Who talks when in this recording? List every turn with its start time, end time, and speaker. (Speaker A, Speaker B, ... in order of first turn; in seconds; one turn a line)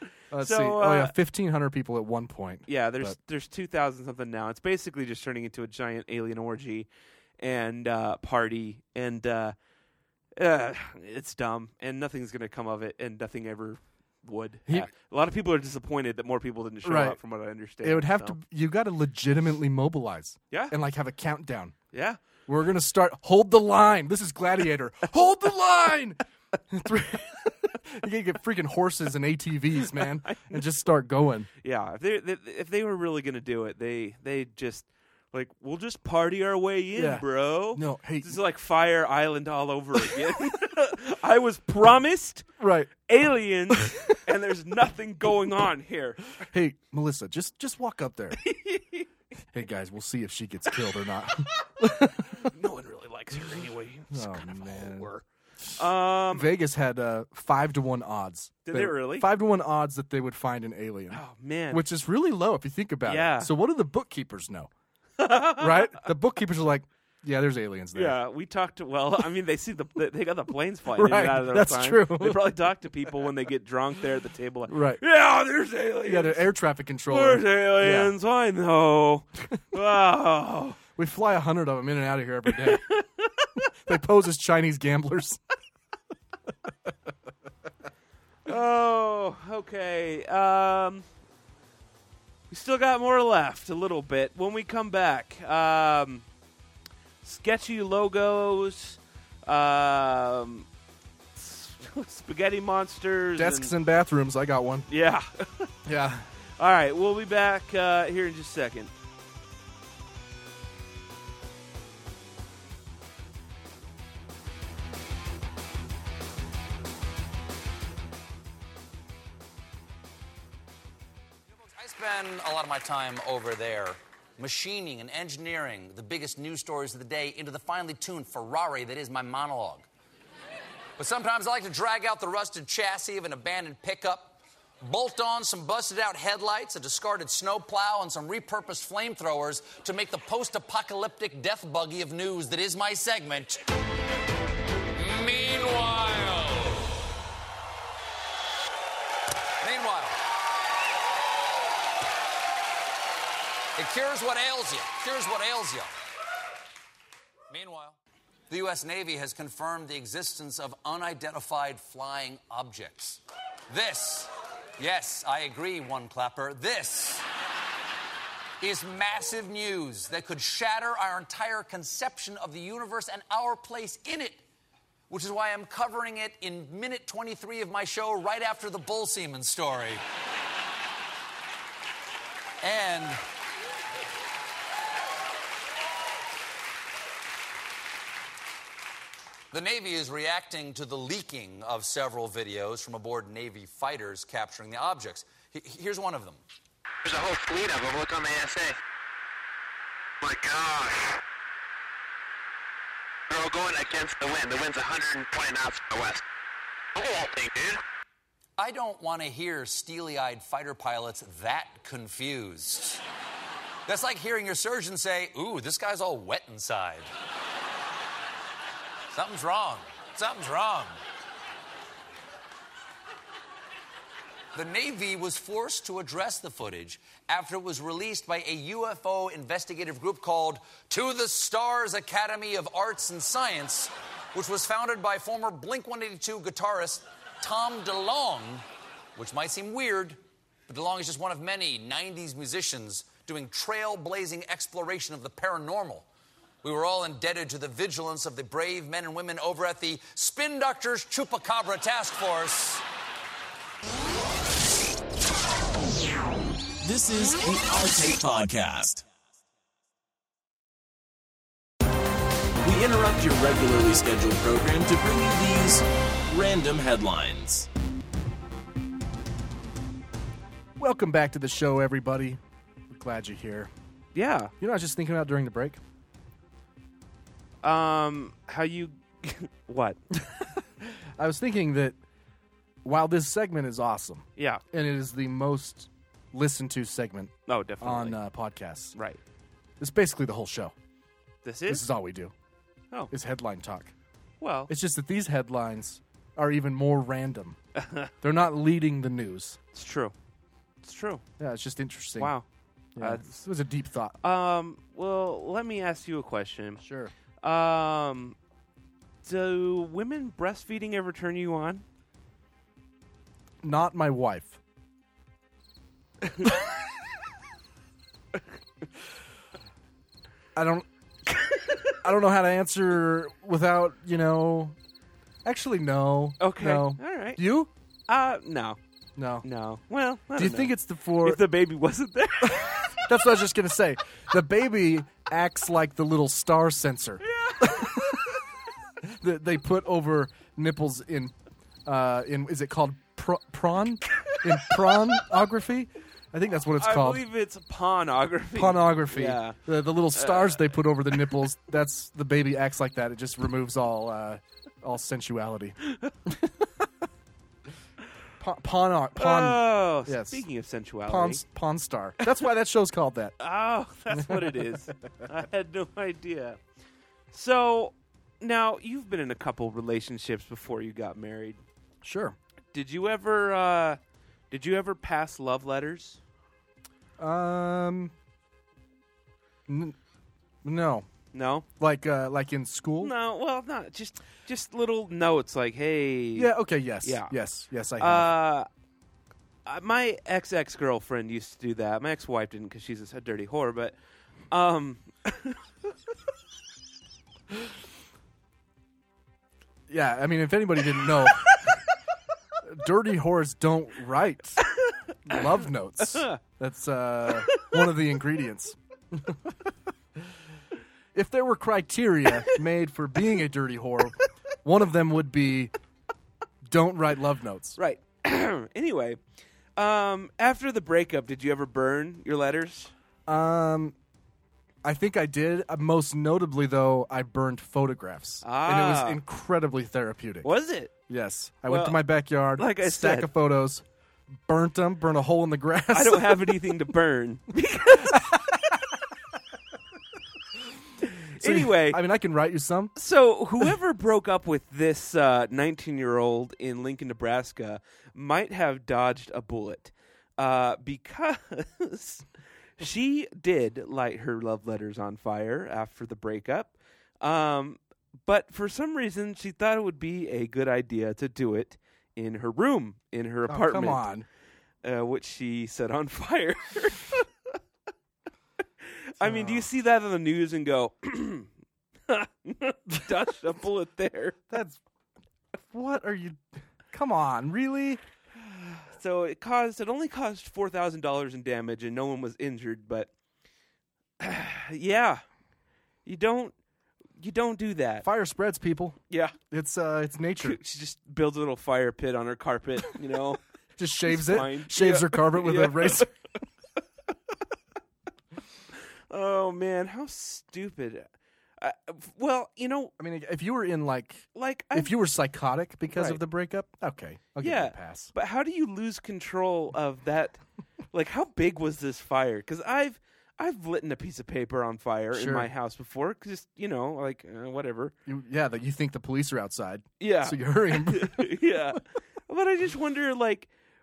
Speaker A: 0.3-3.2
Speaker B: 0.4-1.1
Speaker B: 2.7-6.9
Speaker B: 7.4-9.5
Speaker B: 10.3-18.4
Speaker A: 16.8-17.2
Speaker A: 17.8-21.7
Speaker B: 21.9-22.2
Speaker A: 22.5-31.5
Speaker B: 30.0-30.6
Speaker B: 31.6-42.5
Speaker A: 36.9-38.4
Speaker A: 42.6-42.9
Speaker B: 43.0-46.3
Speaker A: 43.7-44.0
Speaker A: 46.4-48.4
Speaker B: 48.4-49.1
Speaker A: 49.5-52.5
Speaker B: 52.3-55.2
Speaker A: 54.1-55.1
Speaker B: 55.8-56.5
Speaker A: 55.8-64.7
Speaker B: 58.6-59.3
Speaker B: 61.1-61.8
Speaker B: 63.0-63.5
Speaker B: 65.2-66.0
Speaker A: 65.5-68.2
Speaker B: 67.9-76.5
Speaker A: 70.9-72.6
Speaker A: 74.7-75.0
Speaker A: 76.0-78.1
Speaker B: 77.1-80.8
Speaker A: 81.0-82.8
Speaker B: 82.5-83.5
Speaker A: 83.8-85.4
Speaker B: 88.5-91.0
Speaker B: 92.5-96.2
Speaker B: 97.2-100.7
Speaker B: 101.3-103.7
Speaker A: 103.3-104.9
Speaker B: 104.9-105.7
Speaker A: 105.8-106.3
Speaker B: 106.6-108.9
Speaker C: 121.6-129.9
Speaker C: 131.0-143.6
Speaker C: 144.9-146.9
Speaker C: 149.6-150.2
Speaker C: 153.8-155.9
Speaker C: 157.5-158.0
Speaker C: 158.5-167.2
Speaker C: 168.6-174.4
Speaker C: 175.1-180.0
Speaker C: 182.6-183.2
Speaker C: 189.5-196.4
Speaker D: 197.0-198.8
Speaker D: 200.2-201.2
Speaker D: 203.3-206.2
Speaker D: 206.9-207.8
Speaker C: 208.6-213.0
Speaker C: 213.8-217.1
Speaker C: 219.1-221.0
Speaker C: 224.5-246.1
Speaker C: 246.6-252.8
Speaker E: 256.8-259.0
Speaker E: 262.6-267.7
Speaker A: 270.8-273.7
Speaker B: 274.1-274.5
Speaker A: 274.6-275.8
Speaker B: 277.6-280.0
Speaker A: 280.1-282.0
Speaker A: 282.8-288.9
Speaker B: 284.4-284.6
Speaker B: 287.5-288.2
Speaker B: 288.9-289.2
Speaker A: 289.8-290.7
Speaker B: 291.4-291.9
Speaker A: 291.7-292.3
Speaker A: 293.1-293.9
Speaker B: 294.4-294.7
Speaker A: 294.7-297.6
Speaker B: 297.8-298.1
Speaker A: 298.2-299.6
Speaker B: 299.7-300.1
Speaker B: 300.8-301.2
Speaker A: 301.4-302.3
Speaker B: 302.2-302.4
Speaker A: 302.9-304.2
Speaker B: 303.0-303.2
Speaker B: 304.2-306.8
Speaker A: 306.8-307.1
Speaker B: 307.4-308.4
Speaker B: 309.2-311.8
Speaker A: 313.6-314.6
Speaker B: 316.2-316.5
Speaker A: 320.5-321.3
Speaker A: 321.9-324.8
Speaker A: 325.4-327.7
Speaker B: 326.4-327.4
Speaker B: 328.1-328.8
Speaker A: 329.1-329.4
Speaker B: 329.4-333.0
Speaker A: 330.3-331.4
Speaker A: 332.4-338.2
Speaker B: 337.2-338.2
Speaker A: 339.0-347.2
Speaker B: 346.8-349.6
Speaker A: 348.5-356.7
Speaker B: 350.1-350.8
Speaker A: 358.4-360.4
Speaker B: 359.1-361.4
Speaker A: 361.1-363.4
Speaker B: 363.4-366.6
Speaker A: 364.1-364.6
Speaker B: 367.3-371.6
Speaker A: 372.0-372.4
Speaker B: 372.7-374.0
Speaker B: 374.5-376.2
Speaker A: 377.2-378.1
Speaker A: 379.7-379.9
Speaker A: 380.6-381.1
Speaker B: 381.3-381.6
Speaker A: 381.8-383.1
Speaker B: 383.0-386.5
Speaker A: 386.3-388.4
Speaker B: 387.0-387.3
Speaker B: 388.0-388.7
Speaker B: 389.6-393.9
Speaker B: 394.5-395.6
Speaker A: 399.9-401.7
Speaker A: 402.6-404.6
Speaker B: 404.9-405.4
Speaker A: 405.2-410.3
Speaker B: 406.0-406.4
Speaker B: 407.4-407.8
Speaker A: 411.1-415.7
Speaker A: 416.6-417.8
Speaker B: 417.8-419.2
Speaker B: 419.8-422.9
Speaker A: 423.3-423.9
Speaker A: 424.8-430.5
Speaker B: 428.4-429.2
Speaker B: 430.4-430.9
Speaker A: 431.1-436.6
Speaker B: 431.7-432.0
Speaker B: 432.5-433.3
Speaker B: 435.9-438.2
Speaker A: 437.9-438.8
Speaker B: 441.4-442.0
Speaker A: 441.4-442.9
Speaker B: 442.9-452.2
Speaker B: 452.8-464.1
Speaker A: 463.5-464.2
Speaker B: 464.8-467.3
Speaker B: 468.8-471.5
Speaker A: 469.2-469.7
Speaker B: 472.1-474.4
Speaker A: 474.5-474.8
Speaker A: 475.6-478.0
Speaker B: 478.5-483.1
Speaker B: 484.2-485.2
Speaker B: 486.1-486.5
Speaker B: 487.2-488.1
Speaker A: 488.0-489.0
Speaker B: 489.1-489.4
Speaker A: 489.5-490.6
Speaker B: 490.4-493.4
Speaker A: 493.8-496.1
Speaker B: 494.0-496.1
Speaker B: 499.1-501.1
Speaker B: 501.6-502.9
Speaker A: 503.0-508.1
Speaker B: 504.3-504.9
Speaker B: 505.9-506.2
Speaker B: 507.4-510.4
Speaker B: 510.9-517.9
Speaker A: 515.1-515.5
Speaker A: 518.0-521.4
Speaker B: 520.0-523.5